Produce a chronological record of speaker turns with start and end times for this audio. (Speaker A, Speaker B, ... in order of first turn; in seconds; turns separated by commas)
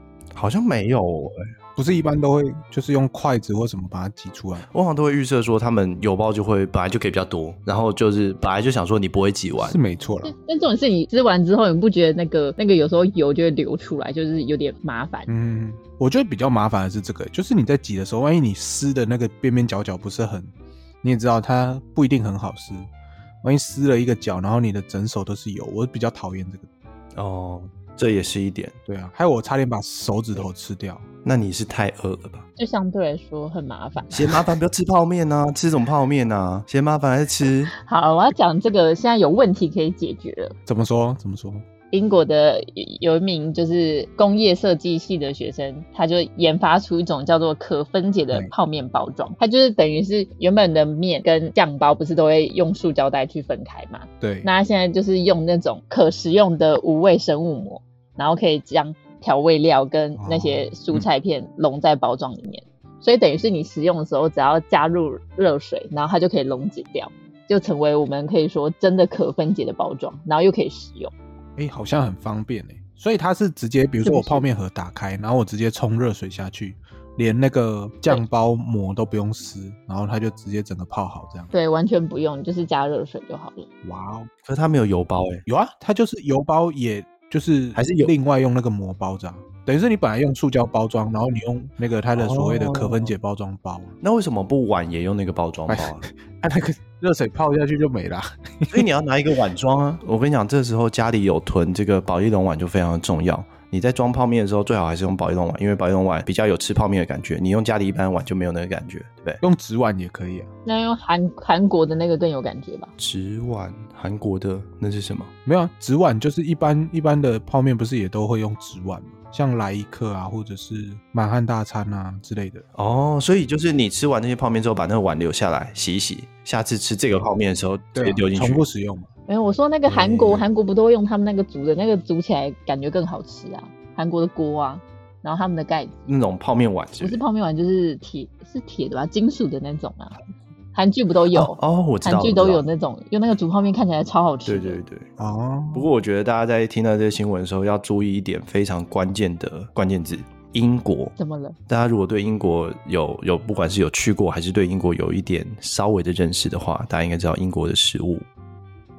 Speaker A: 0.3-1.5, Speaker B: 1.8-4.7, Speaker A: 4.7-9.8, Speaker B: 9.6-10.3, Speaker C: 10.2-15.3, Speaker B: 15.3-20.5, Speaker B: 21.0-22.9, Speaker B: 23.4-26.7, Speaker A: 27.1-28.8, Speaker B: 28.9-31.0, Speaker A: 31.2-32.5, Speaker C: 32.6-34.3, Speaker A: 34.1-37.7, Speaker C: 37.8-40.5, Speaker B: 40.6-41.6, Speaker C: 41.9-71.1, Speaker B: 54.2-54.5, Speaker B: 60.2-61.0, Speaker B: 71.5-81.5, Speaker C: 74.0-74.5, Speaker C: 81.5-83.7, Speaker B: 83.8-84.3, Speaker A: 84.4-85.4, Speaker B: 85.5-94.0, Speaker A: 87.7-88.1, Speaker A: 92.1-93.1, Speaker A: 94.0-96.0, Speaker B: 95.7-98.8, Speaker A: 98.7-109.4, Speaker B: 109.4-110.5, Speaker C: 110.7-112.9, Speaker A: 113.0-115.3, Speaker B: 115.5-122.6, Speaker A: 122.7-128.6, Speaker B: 127.9-129.1, Speaker C: 129.3-136.1, Speaker A: 129.9-130.4, Speaker A: 136.1-137.2, Speaker C: 137.0-140.2, Speaker C: 140.7-144.8, Speaker A: 141.3-142.6, Speaker A: 144.4-145.1, Speaker B: 145.2-145.9, Speaker A: 145.7-151.1, Speaker C: 151.2-151.6, Speaker A: 151.7-158.2